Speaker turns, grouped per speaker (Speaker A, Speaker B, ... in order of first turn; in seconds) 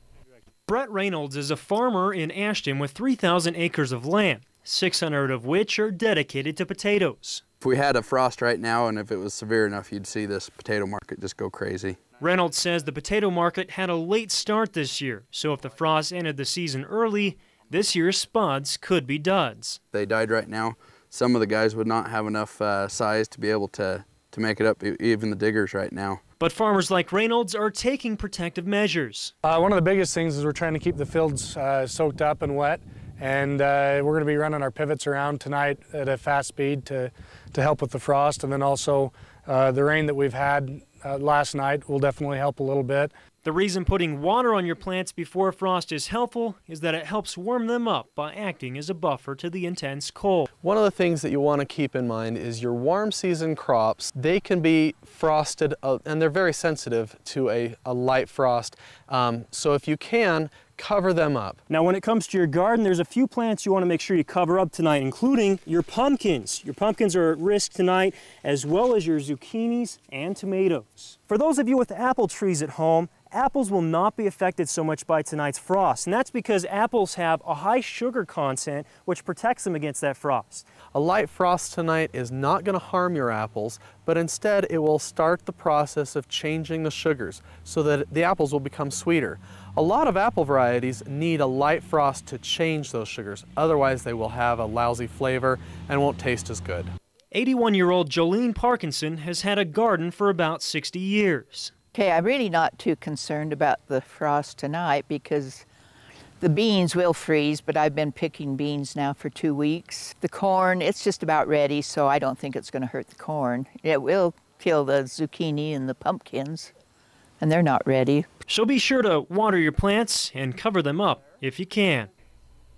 Speaker A: 0.7-7.4, 12.2-19.8, 26.4-29.3, 43.4-50.5, 61.7-80.7, 97.3-101.7, 118.5-122.1
Speaker B: 7.6-12.0, 19.9-26.2
Speaker C: 29.4-43.1
Speaker D: 50.6-61.6, 81.0-96.9
Speaker E: 101.9-105.6, 106.4-116.7, 117.4-118.3